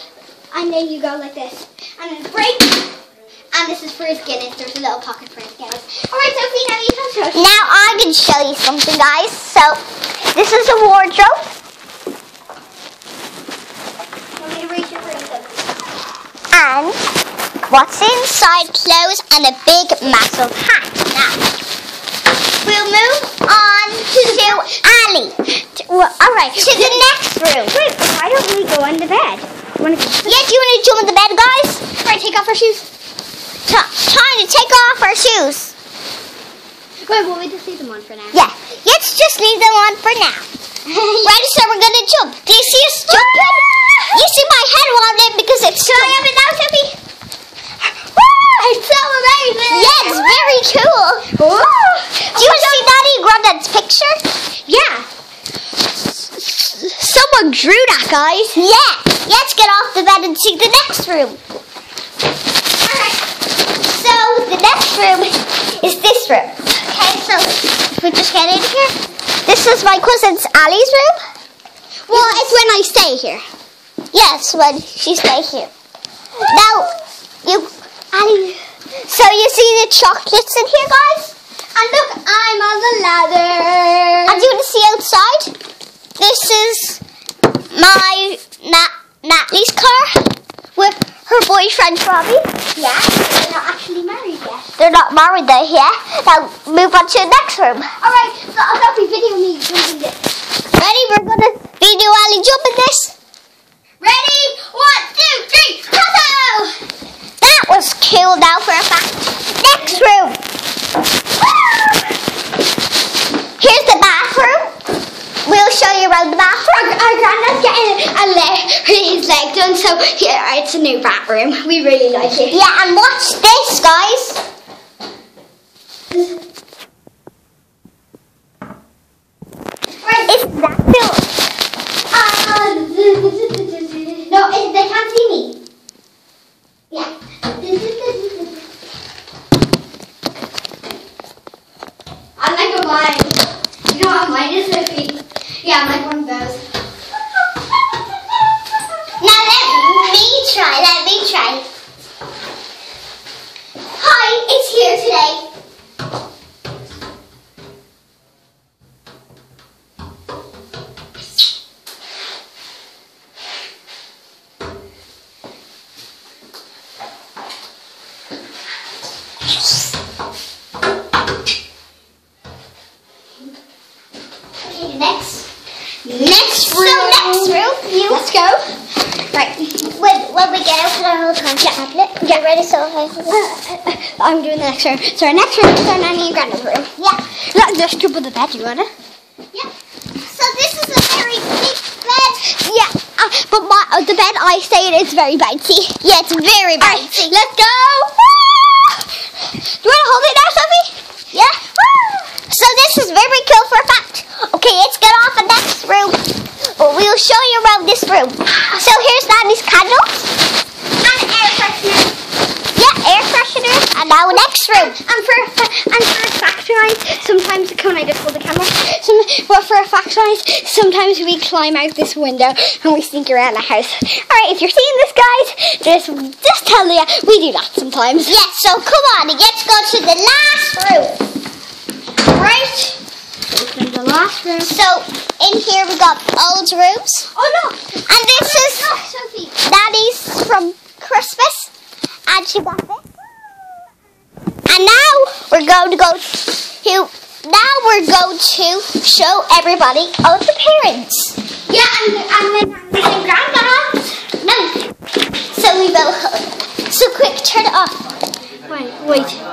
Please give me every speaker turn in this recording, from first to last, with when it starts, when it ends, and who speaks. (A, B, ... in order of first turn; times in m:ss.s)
0:00.5-0:02.9 A
0:03.5-0:07.8 A
0:07.3-0:09.8 B
0:10.3-0:11.5 B
0:14.4-0:15.6 A
0:16.5-0:17.0 B
0:17.6-0:21.4 B
0:22.6-0:25.4 B
0:24.1-0:24.7 A
0:25.9-0:27.1 A
0:25.9-0:27.7 B
0:27.7-0:30.5 A
0:30.3-0:31.8 B
0:32.0-0:32.8 A
0:33.7-0:35.7 B
0:37.1-0:38.4 A
0:38.3-0:40.5 B
0:40.8-0:41.4 A
0:41.2-0:46.2 B
0:43.0-0:44.1 A
0:45.7-0:47.0 A
0:47.8-0:50.5 A
0:49.7-0:51.3 B
0:51.3-0:52.9 A
0:52.3-0:54.2 B
0:54.7-0:55.0 A
0:56.1-0:58.6 A
0:58.5-1:01.4 B
1:02.8-1:03.2 A
1:03.8-1:08.9 B
1:09.4-1:11.2 B
1:12.1-1:13.4 A
1:12.1-1:12.6 B
1:14.1-1:15.7 B
1:16.4-1:16.9 A
1:16.5-1:16.9 B
1:17.4-1:21.3 B
1:21.7-1:24.6 A
1:24.3-1:25.5 B
1:26.2-1:27.0 B
1:27.7-1:32.5 B
1:32.8-1:34.8 A
1:34.8-1:37.9 B
1:38.0-1:40.2 A
1:40.8-1:43.1 B
1:44.0-1:46.7 A
1:47.4-1:50.4 B
1:53.6-1:54.7 B
1:55.4-1:56.9 B
1:56.7-2:02.6 A
2:02.5-2:04.4 B
2:06.1-2:06.4 A
2:10.0-2:10.3 A
2:10.3-2:11.3 B
2:12.1-2:15.5 A
2:16.9-2:18.6 A
2:22.4-2:26.6 A
2:29.2-2:31.6 B
2:34.0-2:35.4 B
2:54.6-2:55.5 B
2:56.0-2:58.6 A
2:56.2-2:58.2 B
2:59.1-2:59.8 A
2:59.9-3:03.4 B
3:01.6-3:02.4 A
3:03.3-3:08.9 A
3:07.0-3:07.2 B
3:10.2-3:12.4 B
3:12.4-3:16.0 A
3:16.0-3:17.3 B
3:16.8-3:19.1 A
3:19.8-3:20.9 A
3:21.3-3:21.8 B
3:22.4-3:26.2 B
3:26.8-3:30.3 B
3:31.0-3:32.1 A
3:32.7-3:34.9 B
3:34.3-3:48.4 A
3:48.3-3:51.2 B
3:52.2-3:54.7 A
3:54.6-3:57.3 B
3:57.3-3:59.6 A
3:58.1-3:58.9 B
3:59.6-4:01.7 B
4:02.3-4:03.0 B
4:04.7-4:11.4 B
4:11.7-4:14.4 A
4:14.4-4:14.7 B
4:15.5-4:18.0 B
4:18.7-4:19.4 A